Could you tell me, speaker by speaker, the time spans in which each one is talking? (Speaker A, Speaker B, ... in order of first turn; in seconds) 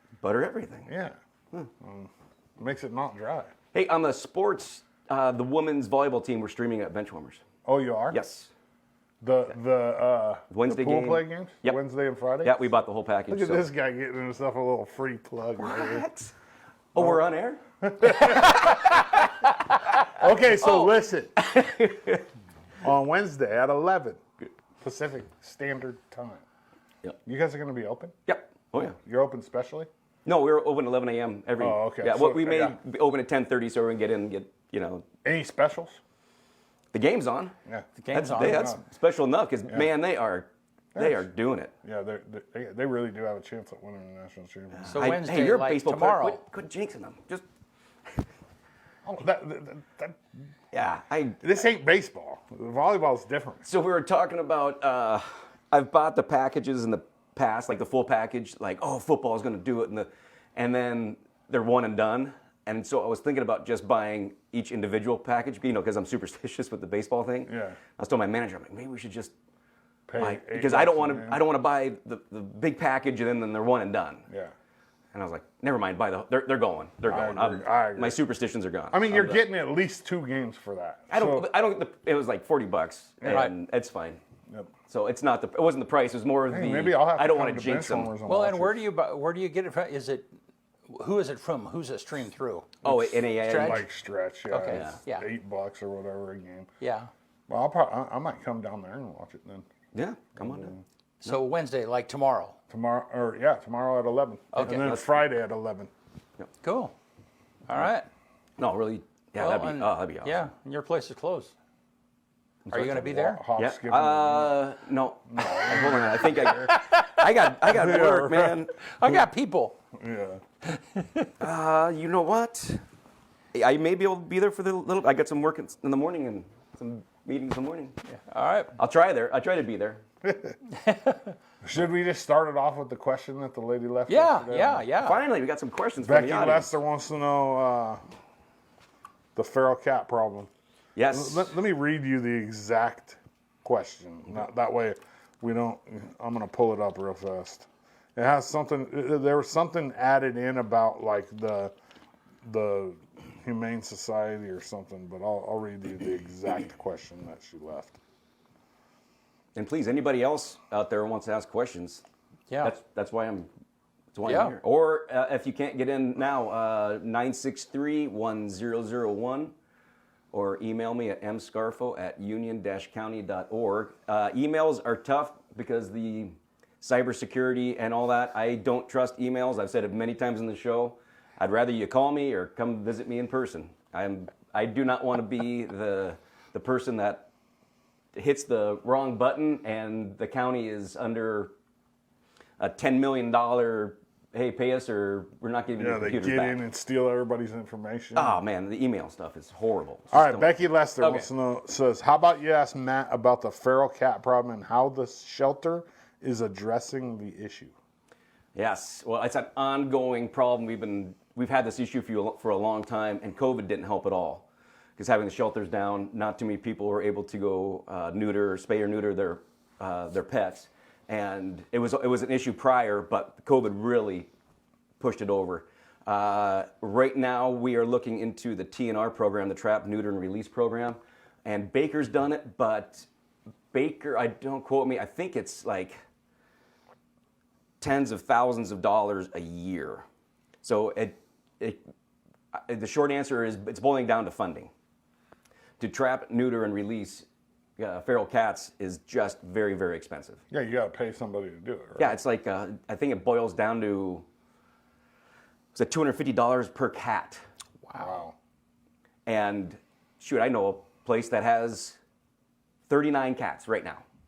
Speaker A: 0.2-0.9, 3.7-7.4, 8.1-8.5, 10.5-11.8, 12.4-13.7, 15.6-16.3, 16.9-19.5, 20.6-22.2, 28.3-29.0, 30.2-35.1, 36.9-37.5, 38.1-41.7, 44.8-47.4, 50.7-51.4, 53.6-69.3, 70.2-74.2, 75.1-79.5, 81.1-84.2, 84.9-88.1, 92.8-93.8, 94.7-95.0, 99.9-100.7, 104.6-105.2, 108.6-110.5, 112.7-118.7, 121.4-122.8, 123.5-127.9, 128.8-130.0, 135.0-136.7, 140.9-141.6, 159.6-162.0, 162.6-163.5, 164.1-169.5, 170.3-187.3, 188.2-191.5, 192.6-196.6, 198.2-201.3, 208.6-224.3, 225.0-233.1, 233.7-235.9, 237.8-240.0, 240.6-241.8, 242.5-244.7, 245.8-247.3, 247.8-250.4, 252.0-254.2, 255.8-257.4, 259.3-262.0, 262.9-264.0
Speaker B: 0.9-1.2, 1.8-3.5, 7.7-8.2, 9.2-12.7, 13.3-16.1, 17.8-18.8, 19.9-21.4, 22.8-24.2, 24.8-26.4, 27.2-28.1, 28.8-29.9, 31.6-32.8, 35.2-36.0, 37.7-38.8, 41.0-41.3, 41.8-45.1, 49.0-50.2, 51.4-53.7, 67.5-67.8, 70.1-71.4, 77.1-78.2, 78.9-81.5, 86.5-88.9, 93.6-96.7, 97.5-99.7, 100.4-100.8, 102.7-105.9, 113.0-114.6, 115.3-116.7, 117.7-118.6, 119.9-120.4, 130.3-130.6, 131.6-134.9, 136.0-138.0, 139.4-140.5, 141.1-151.7, 152.4-158.0, 195.8-198.4, 200.1-207.7, 250.5-252.2, 257.9-258.4
Speaker C: 38.0-38.8, 44.9-46.4, 83.2-83.5, 88.2-90.3, 90.9-93.9, 94.5-95.3, 96.8-97.1, 101.2-102.6, 104.5-105.0, 106.6-106.9, 107.7-108.1, 109.4-111.5, 112.7-113.4, 116.5-118.0, 119.0-119.8, 128.1-128.8, 130.8-131.3, 134.1-135.2, 162.5-162.7, 164.2-164.6, 257.9-258.2